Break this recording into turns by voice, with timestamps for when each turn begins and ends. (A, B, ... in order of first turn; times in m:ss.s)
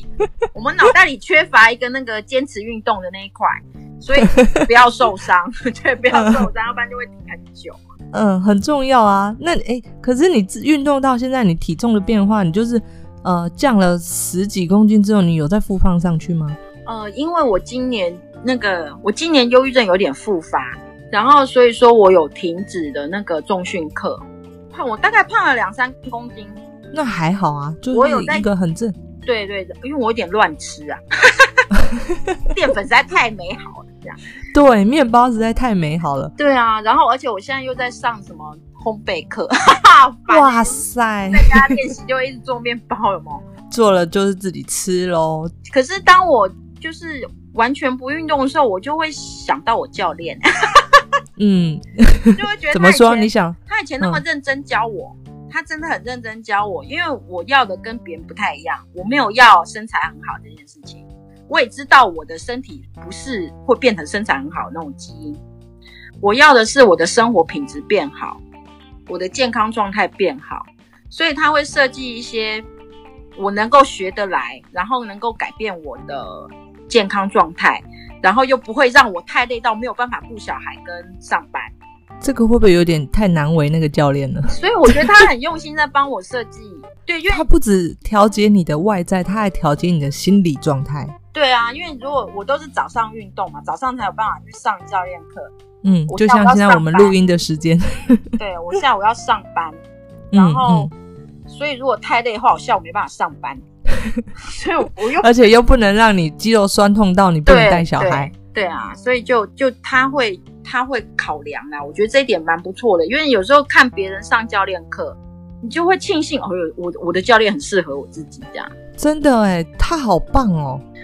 0:00.5-0:07.8 A
0:04.2-0:04.6 B
0:06.1-0:06.5 B
0:08.1-0:16.6 B
0:16.8-0:26.6 A
0:26.9-0:28.9 B
0:27.9-0:28.5 A
0:29.2-0:31.7 A
0:31.8-0:32.4 B
0:32.5-0:34.2 A
0:34.5-0:36.3 B
0:36.4-0:43.4 A
0:40.3-0:41.8 B
0:43.7-0:45.5 B
0:45.7-0:51.0 A
0:51.4-0:54.2 B
0:52.3-1:05.4 A
1:06.2-1:08.4 A
1:09.1-1:12.6 A
1:13.4-1:21.7 A
1:22.2-1:25.0 B
1:24.5-1:27.4 A
1:27.3-1:31.1 B
1:31.3-1:35.5 A
1:35.8-1:38.4 B
1:36.1-1:37.2 A
1:38.4-1:39.8 A
1:40.3-1:40.9 B
1:40.3-1:40.9 A
1:41.5-1:43.6 A
1:43.9-1:44.2 B
1:44.4-1:45.3 A
1:45.2-1:48.3 B
1:47.4-1:58.7 A
1:59.0-2:00.8 B